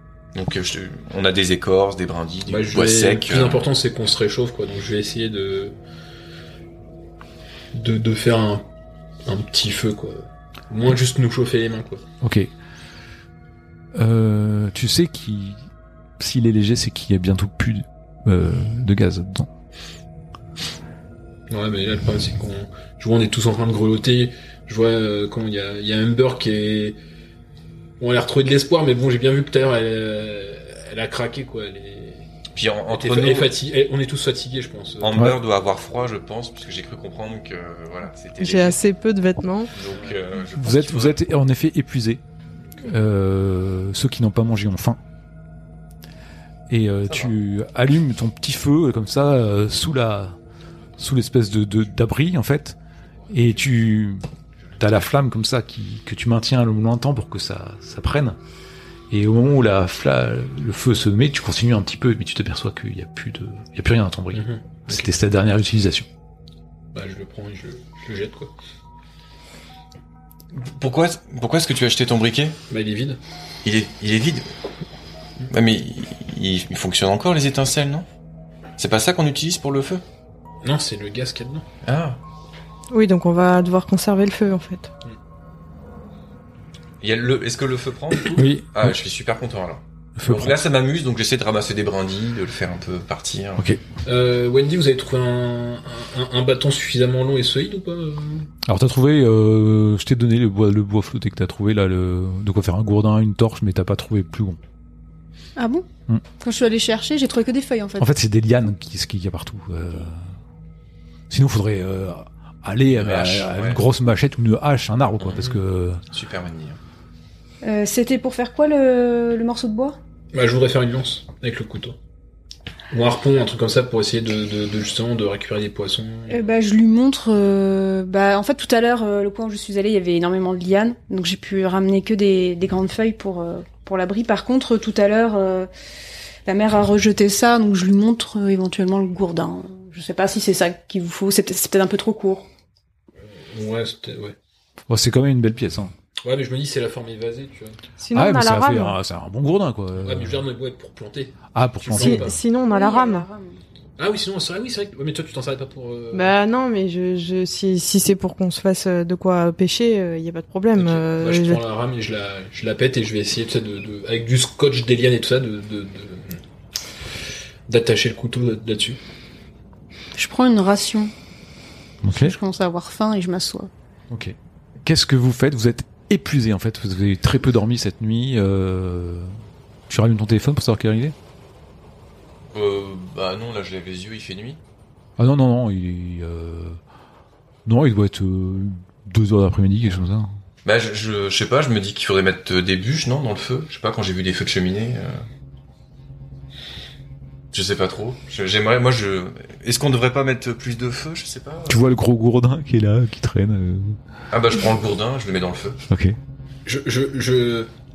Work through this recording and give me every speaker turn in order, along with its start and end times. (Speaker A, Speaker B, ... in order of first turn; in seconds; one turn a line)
Speaker A: 0.3-3.7
Speaker B: 2.5-5.8
Speaker B: 7.7-8.7
Speaker B: 9.2-12.0
Speaker C: 12.2-12.5
Speaker C: 13.9-15.7
Speaker C: 16.2-19.5
Speaker B: 21.5-27.0
Speaker B: 28.0-32.3
Speaker A: 32.5-33.5
Speaker B: 32.9-35.3
Speaker A: 35.0-38.8
Speaker D: 38.4-39.7
Speaker A: 39.7-41.2
Speaker C: 40.5-42.2
Speaker C: 42.8-45.0
Speaker C: 46.7-50.4
Speaker C: 51.0-52.8
Speaker C: 53.3-54.2
Speaker C: 54.8-58.4
Speaker C: 59.1-66.1
Speaker B: 64.3-65.0
Speaker B: 66.9-68.5
Speaker A: 70.5-72.6
Speaker B: 72.7-73.2
Speaker A: 73.6-74.5
Speaker A: 75.5-78.0
Speaker A: 78.8-80.0
Speaker B: 80.6-81.7
Speaker A: 81.8-82.2
Speaker D: 82.9-84.9
Speaker A: 87.0-93.7
Speaker C: 88.3-89.0
Speaker C: 90.2-90.6
Speaker C: 93.6-93.8
Speaker B: 94.0-98.5
Speaker C: 98.7-104.6
Speaker E: 105.6-105.9
Speaker E: 106.4-108.1
Speaker C: 108.0-110.2
Speaker C: 111.3-116.0
Speaker A: 112.9-113.8
Speaker A: 115.2-115.5
Speaker A: 116.1-116.8
Speaker E: 117.6-120.0
Speaker B: 120.3-122.0
Speaker B: 122.9-126.4
Speaker E: 126.3-135.7
Speaker E: 136.4-142.5
Speaker B: 143.2-144.3
Speaker C: 144.9-145.9
Speaker B: 146.2-147.8
Speaker D: 148.0-149.0
Speaker C: 148.1-150.4
Speaker B: 150.0-152.3
Speaker C: 151.5-152.3
Speaker D: 151.9-153.2
Speaker E: 152.7-153.6
Speaker B: 154.0-156.3
Speaker D: 156.1-161.6
Speaker B: 160.8-166.4
Speaker B: 167.7-169.0
Speaker E: 170.2-171.1
Speaker C: 172.0-172.3
Speaker E: 172.1-173.7
Speaker C: 174.1-179.4
Speaker C: 179.9-181.1
Speaker A: 182.5-184.6
Speaker C: 185.2-186.8
Speaker C: 187.6-190.3
Speaker A: 190.6-195.2
Speaker A: 197.5-201.8
Speaker C: 201.7-204.0
Speaker A: 204.3-205.8
Speaker C: 205.9-206.2
Speaker B: 206.7-207.7